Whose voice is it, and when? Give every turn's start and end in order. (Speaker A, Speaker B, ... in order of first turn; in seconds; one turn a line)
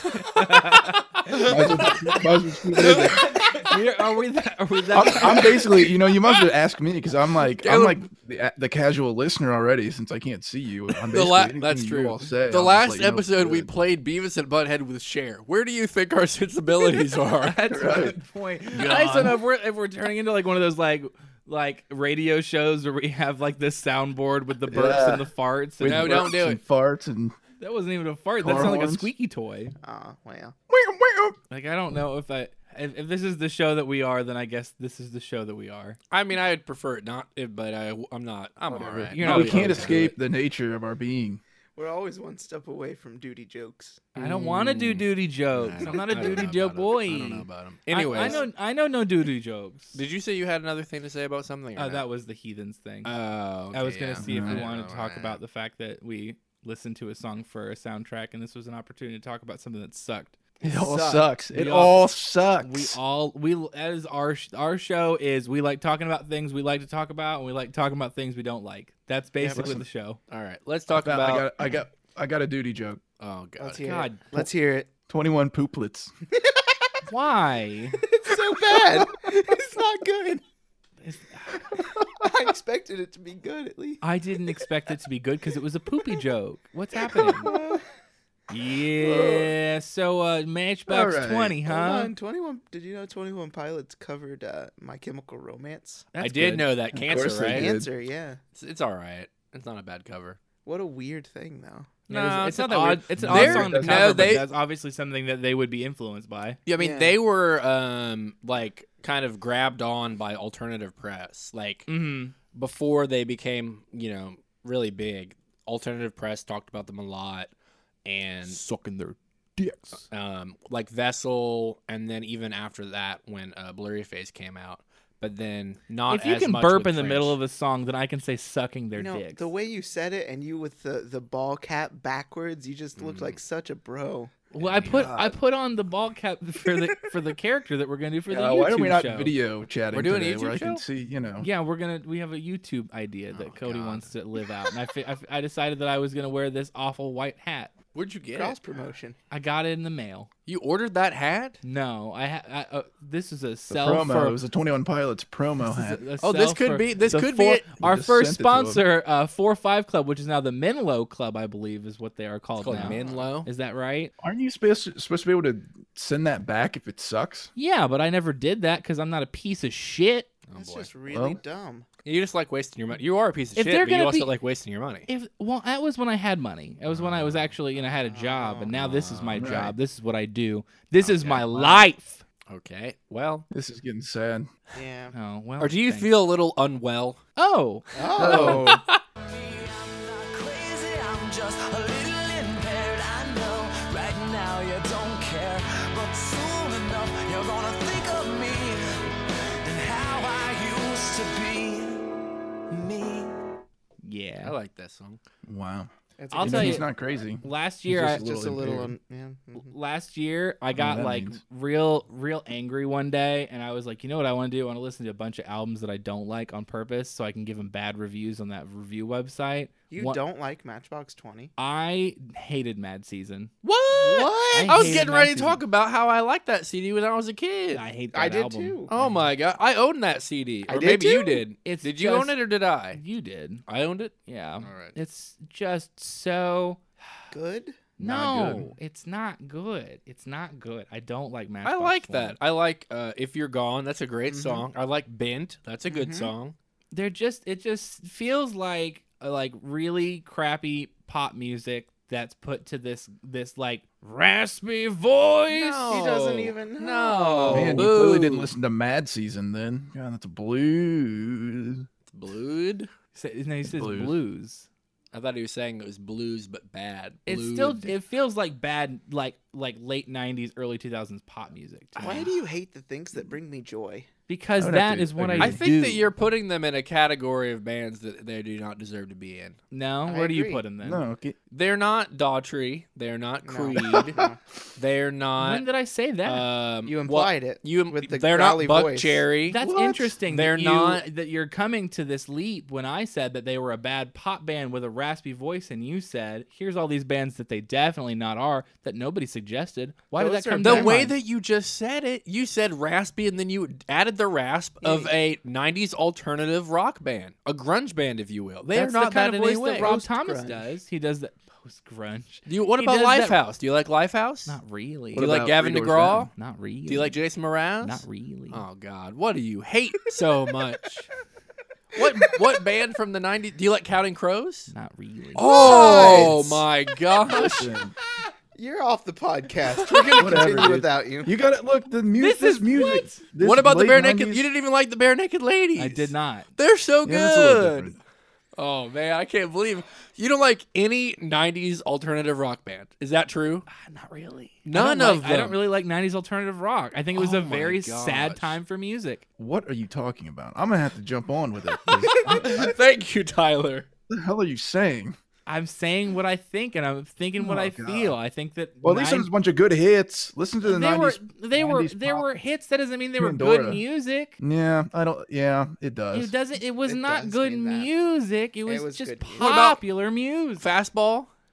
Speaker A: 0.1-1.9
Speaker B: 0.1-1.5
Speaker C: 1.3-3.4
Speaker B: 2.8-3.1
Speaker A: 3.1-5.8
Speaker C: 4.9-13.7
Speaker B: 7.6-8.0
Speaker B: 11.1-17.8
Speaker A: 17.4-26.3
Speaker C: 17.7-18.1
Speaker B: 18.7-19.4
Speaker C: 24.7-25.3
Speaker C: 25.8-27.4
Speaker B: 25.8-26.6
Speaker A: 27.6-29.8
Speaker C: 28.4-29.1
Speaker D: 29.8-30.6
Speaker C: 30.7-31.4
Speaker A: 31.5-36.0
Speaker B: 36.1-40.1
Speaker C: 38.7-41.4
Speaker A: 39.1-40.1
Speaker D: 41.8-44.1
Speaker A: 44.1-50.0
Speaker B: 44.2-48.5
Speaker D: 45.9-46.5
Speaker D: 48.1-48.5
Speaker B: 49.9-52.1
Speaker A: 51.8-53.1
Speaker B: 53.0-55.4
Speaker A: 53.7-62.1
Speaker C: 54.2-54.6
Speaker C: 60.6-63.0
Speaker A: 62.6-70.2
Speaker D: 69.4-69.8
Speaker C: 69.6-69.8
Speaker B: 70.3-71.5
Speaker C: 70.9-73.0
Speaker B: 73.2-73.9
Speaker D: 73.6-74.9
Speaker A: 73.8-74.2
Speaker C: 75.1-76.1
Speaker D: 76.4-76.9
Speaker A: 77.1-78.0
Speaker D: 78.0-80.4
Speaker A: 81.0-81.7
Speaker D: 81.6-84.0
Speaker A: 84.0-87.5
Speaker D: 87.0-87.8
Speaker A: 88.5-92.1
Speaker D: 89.0-89.5
Speaker C: 90.9-91.6
Speaker D: 91.7-96.1
Speaker A: 96.1-96.7
Speaker B: 96.2-97.7
Speaker C: 96.9-97.9
Speaker D: 97.5-98.4
Speaker B: 98.5-100.4
Speaker D: 100.7-102.0
Speaker B: 102.1-104.5
Speaker A: 102.1-106.6
Speaker C: 103.2-104.5
Speaker B: 106.7-111.9
Speaker D: 106.8-107.2
Speaker A: 111.9-112.3
Speaker B: 112.5-117.5
Speaker B: 118.0-118.6
Speaker A: 118.5-120.1
Speaker B: 120.0-127.4
Speaker A: 126.1-129.5
Speaker D: 128.9-134.3
Speaker B: 133.0-133.4
Speaker A: 134.5-139.3
Speaker B: 134.6-135.1
Speaker C: 134.9-135.4
Speaker C: 138.3-141.5
Speaker B: 139.9-140.8
Speaker A: 141.4-147.7
Speaker B: 143.3-144.1
Speaker B: 147.9-148.6
Speaker D: 148.3-149.2
Speaker A: 149.3-150.3
Speaker B: 150.5-151.6
Speaker A: 151.6-154.4
Speaker C: 153.7-156.0
Speaker A: 155.6-164.1
Speaker B: 156.2-157.7
Speaker C: 157.1-158.8
Speaker B: 162.6-163.5
Speaker D: 162.7-163.3
Speaker C: 164.2-167.5
Speaker A: 167.6-170.3
Speaker B: 170.5-170.9
Speaker D: 170.6-171.9
Speaker C: 171.1-171.4
Speaker B: 172.1-175.1
Speaker A: 173.6-174.3
Speaker A: 175.1-182.2
Speaker C: 176.9-177.4
Speaker D: 177.8-178.8
Speaker B: 178.7-179.5
Speaker C: 179.3-179.8
Speaker B: 181.0-181.9
Speaker B: 182.5-183.5
Speaker C: 183.5-184.5
Speaker D: 184.8-185.2
Speaker A: 185.1-186.1
Speaker B: 185.6-187.2
Speaker A: 187.4-188.8
Speaker D: 187.9-188.8
Speaker C: 188.2-188.7
Speaker B: 188.3-189.0
Speaker E: 189.2-202.0
Speaker E: 202.7-203.4
Speaker A: 204.0-204.6
Speaker B: 204.4-205.2
Speaker C: 205.4-208.9
Speaker D: 206.2-206.9
Speaker A: 206.3-206.9
Speaker A: 207.4-208.3
Speaker D: 208.1-209.8
Speaker A: 209.6-220.2
Speaker C: 210.7-211.4
Speaker D: 219.9-221.5
Speaker A: 221.6-223.5
Speaker B: 223.6-227.8
Speaker D: 223.9-225.1
Speaker A: 224.5-225.6
Speaker A: 227.7-229.3
Speaker D: 228.1-228.9
Speaker B: 228.9-233.0
Speaker D: 230.7-231.4
Speaker A: 231.6-232.3
Speaker A: 232.9-233.6
Speaker B: 233.7-235.0
Speaker A: 234.3-236.8
Speaker D: 237.3-237.8
Speaker A: 238.0-242.4
Speaker B: 238.1-238.7
Speaker B: 241.6-246.6
Speaker D: 244.3-244.7
Speaker D: 245.9-246.3
Speaker A: 246.9-255.8
Speaker B: 255.5-258.5
Speaker D: 255.7-257.6
Speaker A: 257.4-257.9
Speaker C: 257.5-261.9
Speaker B: 262.1-262.9
Speaker A: 263.1-264.7
Speaker C: 263.7-264.1
Speaker B: 265.1-268.0
Speaker A: 267.3-272.3
Speaker B: 272.0-272.3
Speaker D: 272.0-274.1
Speaker A: 274.3-276.1
Speaker C: 274.6-275.6
Speaker B: 275.4-279.6
Speaker A: 279.7-281.0
Speaker D: 280.1-280.6
Speaker C: 280.8-281.4
Speaker B: 281.5-284.2
Speaker D: 283.4-284.4
Speaker B: 284.8-285.7
Speaker A: 285.4-286.5
Speaker B: 286.2-289.6
Speaker D: 286.9-289.2
Speaker A: 289.5-301.1
Speaker C: 289.6-290.2
Speaker B: 290.3-291.0
Speaker D: 300.2-301.0
Speaker B: 300.6-309.9
Speaker D: 304.8-305.1
Speaker A: 308.7-313.4
Speaker D: 309.8-310.7
Speaker B: 312.5-314.6
Speaker A: 314.5-315.3
Speaker C: 315.1-316.3
Speaker B: 315.1-316.3
Speaker A: 316.4-317.2
Speaker B: 316.9-321.1
Speaker A: 317.8-318.6
Speaker B: 321.9-324.7
Speaker A: 324.7-326.2
Speaker B: 325.4-327.7
Speaker D: 325.4-326.4
Speaker C: 325.8-326.6
Speaker D: 327.3-327.6
Speaker C: 327.3-327.9
Speaker D: 328.6-331.3
Speaker B: 329.7-330.5
Speaker C: 330.2-334.5
Speaker A: 332.2-333.2
Speaker B: 333.4-338.0
Speaker A: 335.8-336.5
Speaker C: 337.0-338.0
Speaker B: 338.6-343.7
Speaker A: 343.7-349.2
Speaker B: 344.6-345.6
Speaker B: 347.1-348.6
Speaker C: 349.4-352.8
Speaker B: 352.1-353.9
Speaker C: 354.1-355.2
Speaker A: 355.5-359.3
Speaker C: 357.4-358.2
Speaker C: 358.8-362.3
Speaker A: 360.6-364.4
Speaker C: 363.2-363.8
Speaker C: 364.4-366.3
Speaker A: 366.1-370.7
Speaker D: 366.8-367.9
Speaker D: 368.6-369.6
Speaker B: 369.4-369.8
Speaker B: 370.6-371.3